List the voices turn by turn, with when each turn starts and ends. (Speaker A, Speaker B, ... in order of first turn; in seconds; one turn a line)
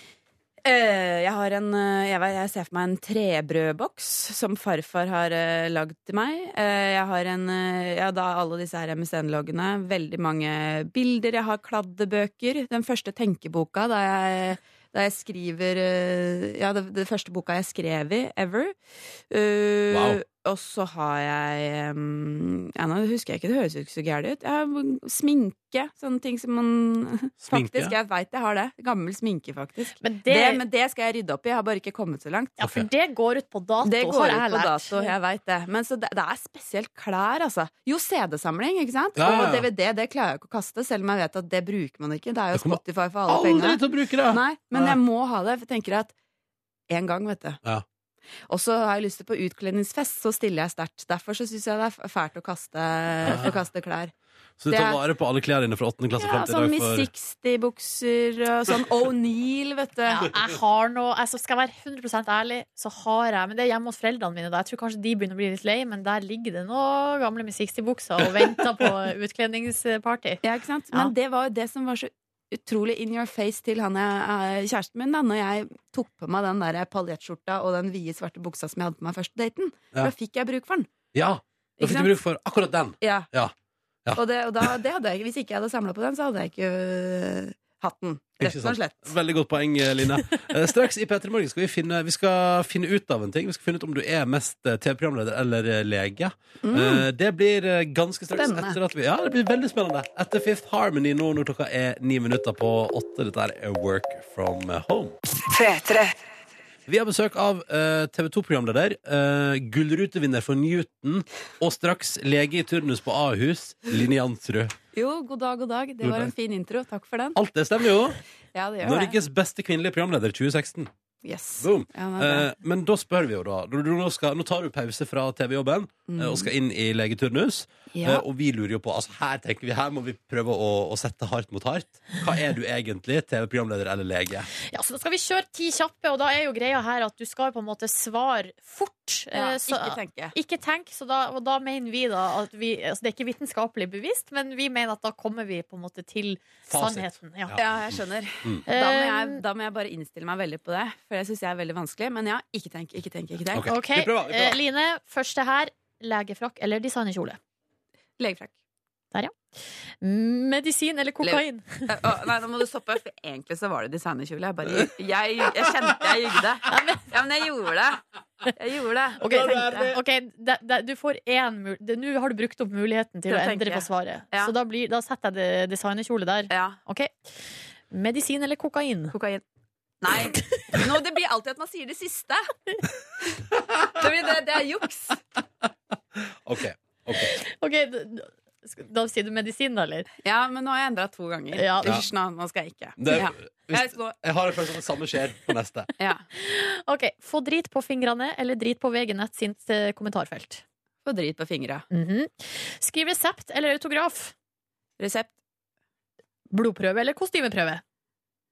Speaker A: 0.6-18.8
Speaker A: 19.3-32.6
Speaker B: 19.9-20.2
Speaker B: 27.4-27.9
Speaker C: 30.0-30.6
Speaker C: 32.6-35.1
Speaker B: 32.6-32.9
Speaker A: 33.8-46.1
Speaker B: 39.2-39.7
Speaker B: 42.5-45.0
Speaker A: 46.9-47.6
Speaker A: 48.5-54.1
Speaker B: 53.3-53.5
Speaker B: 54.6-57.1
Speaker A: 54.7-55.0
Speaker A: 56.2-60.3
Speaker C: 60.1-71.1
Speaker A: 70.4-80.9
Speaker B: 81.1-83.5
Speaker A: 81.8-82.1
Speaker A: 83.0-83.3
Speaker A: 84.1-89.1
Speaker B: 88.4-105.2
Speaker A: 96.6-97.1
Speaker A: 98.3-98.8
Speaker A: 105.6-106.0
Speaker B: 106.9-114.8
Speaker A: 114.9-117.4
Speaker B: 116.0-116.3
Speaker B: 117.3-118.2
Speaker A: 118.5-119.2
Speaker B: 118.8-120.9
Speaker A: 121.2-122.5
Speaker B: 121.6-134.5
Speaker A: 126.1-126.5
Speaker A: 127.9-128.2
Speaker C: 134.7-147.6
Speaker A: 139.3-140.4
Speaker B: 146.7-147.6
Speaker A: 147.6-153.7
Speaker C: 148.7-149.4
Speaker B: 153.5-154.6
Speaker C: 153.6-157.4
Speaker A: 158.2-158.6
Speaker C: 160.0-161.9
Speaker A: 161.2-168.0
Speaker C: 166.7-167.0
Speaker A: 168.6-169.9
Speaker C: 169.2-177.1
Speaker B: 169.4-169.9
Speaker A: 173.3-174.5
Speaker A: 176.5-176.8
Speaker C: 177.9-179.2
Speaker A: 179.1-179.4
Speaker A: 180.0-182.5
Speaker A: 183.9-185.2
Speaker B: 186.2-187.3
Speaker C: 187.3-190.1
Speaker A: 190.2-194.2
Speaker C: 191.5-191.9
Speaker B: 193.0-195.9
Speaker A: 196.0-196.2
Speaker C: 196.4-200.6
Speaker A: 201.1-201.9
Speaker C: 201.9-204.3
Speaker A: 205.0-205.3
Speaker C: 206.5-207.8